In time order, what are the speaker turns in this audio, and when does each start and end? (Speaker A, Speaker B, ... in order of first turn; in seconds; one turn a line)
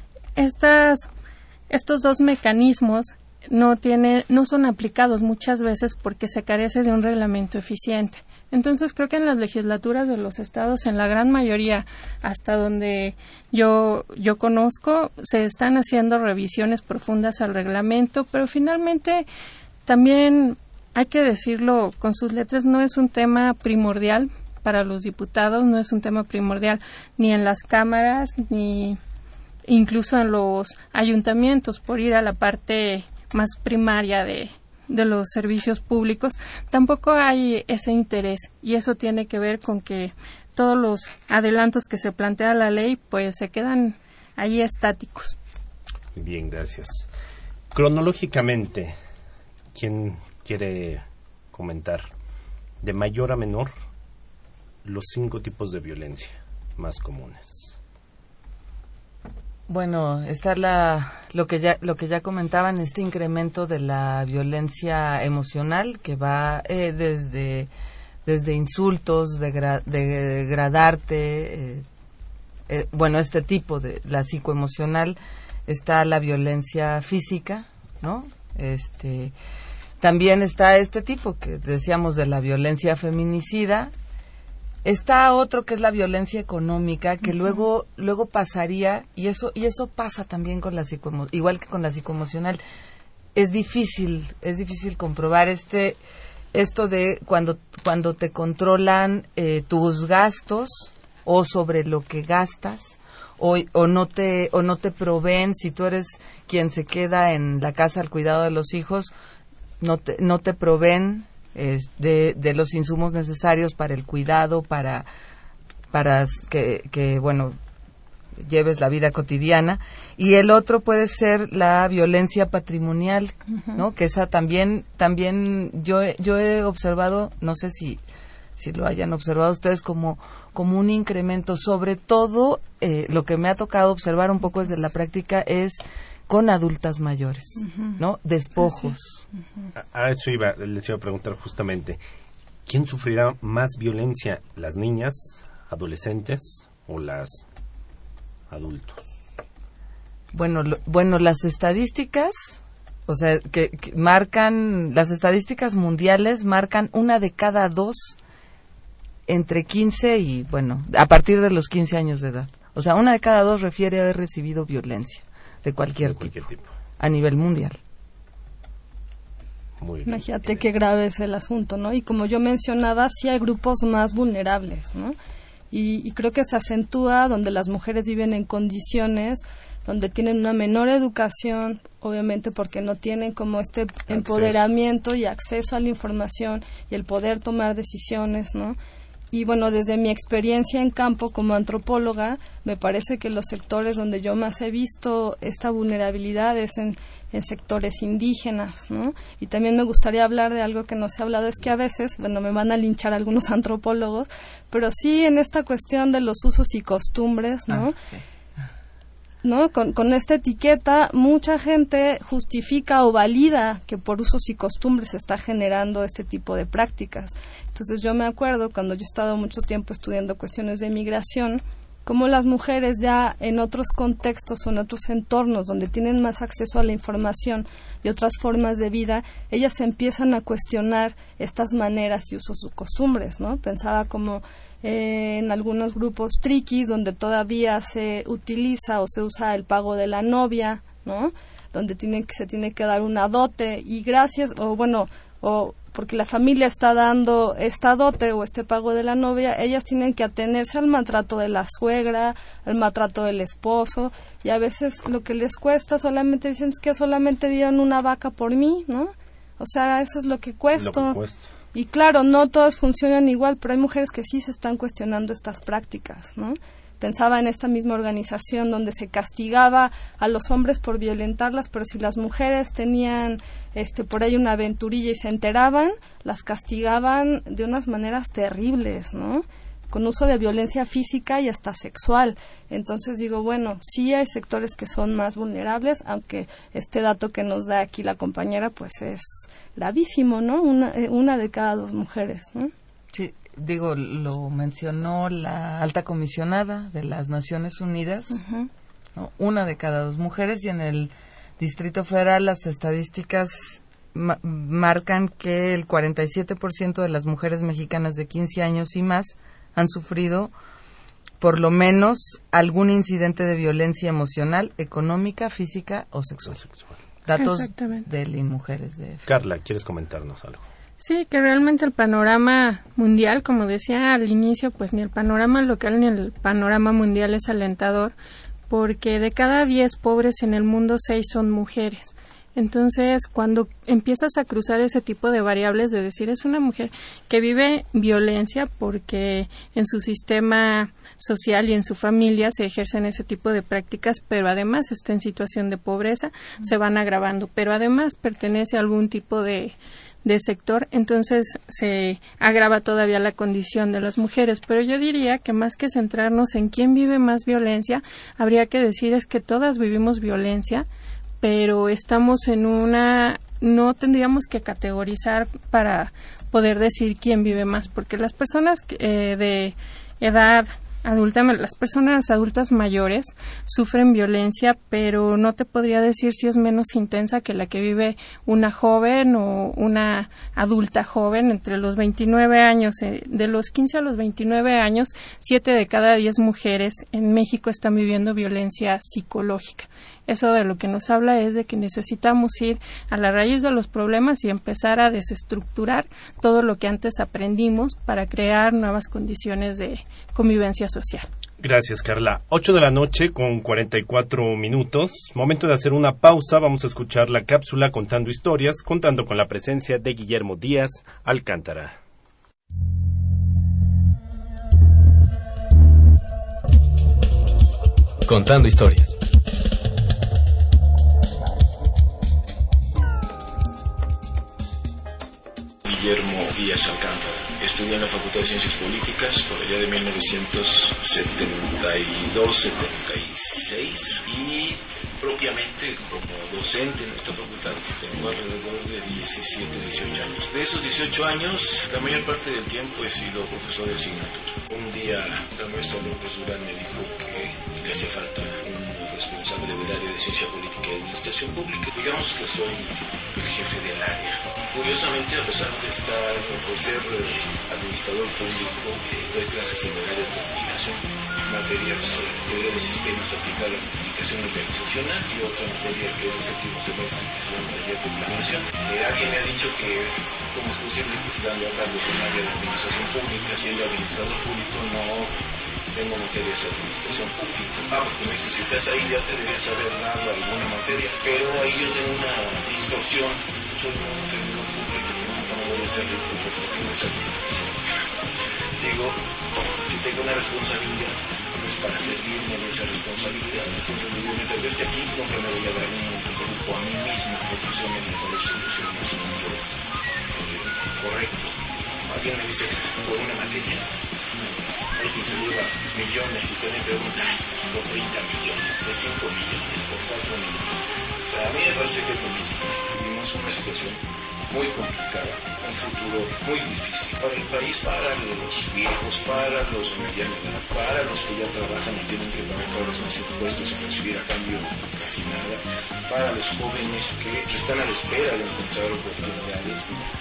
Speaker A: 0.4-1.1
Speaker A: 1.7-19.3
Speaker A: 19.9-29.0
Speaker A: 29.7-45.4
Speaker B: 46.1-47.1
Speaker B: 47.7-49.0
Speaker B: 49.7-52.1
Speaker B: 52.8-53.7
Speaker B: 54.9-57.8
Speaker C: 59.7-67.7
Speaker C: 68.3-71.8
Speaker C: 72.7-79.3
Speaker C: 80.0-83.9
Speaker C: 84.8-92.6
Speaker C: 93.3-96.0
Speaker C: 96.5-109.1
Speaker C: 109.8-115.1
Speaker C: 115.9-117.6
Speaker C: 118.4-128.0
Speaker D: 123.5-123.8
Speaker C: 128.6-139.2
Speaker D: 137.6-138.0
Speaker B: 139.8-142.0
Speaker B: 142.7-147.4
Speaker B: 148.5-149.0
Speaker C: 150.3-158.2
Speaker C: 159.3-166.3
Speaker B: 166.0-166.7
Speaker C: 167.0-167.8
Speaker B: 169.8-170.6
Speaker D: 170.1-175.2
Speaker D: 175.7-188.8
Speaker B: 184.1-184.7
Speaker D: 189.3-208.0
Speaker D: 209.4-261.2
Speaker B: 260.8-261.5
Speaker D: 261.7-292.7
Speaker C: 293.1-298.4
Speaker D: 298.3-298.7
Speaker C: 299.1-310.5
Speaker C: 311.4-316.6
Speaker B: 316.5-316.9
Speaker C: 317.2-319.2
Speaker A: 317.4-318.1
Speaker B: 319.2-320.6
Speaker A: 321.0-328.1
Speaker A: 328.7-360.9
Speaker A: 361.4-401.3
Speaker B: 401.6-412.0
Speaker B: 418.3-419.1
Speaker E: 425.9-475.3
Speaker E: 475.9-487.8
Speaker E: 488.8-489.2
Speaker E: 489.9-499.6
Speaker E: 500.3-529.9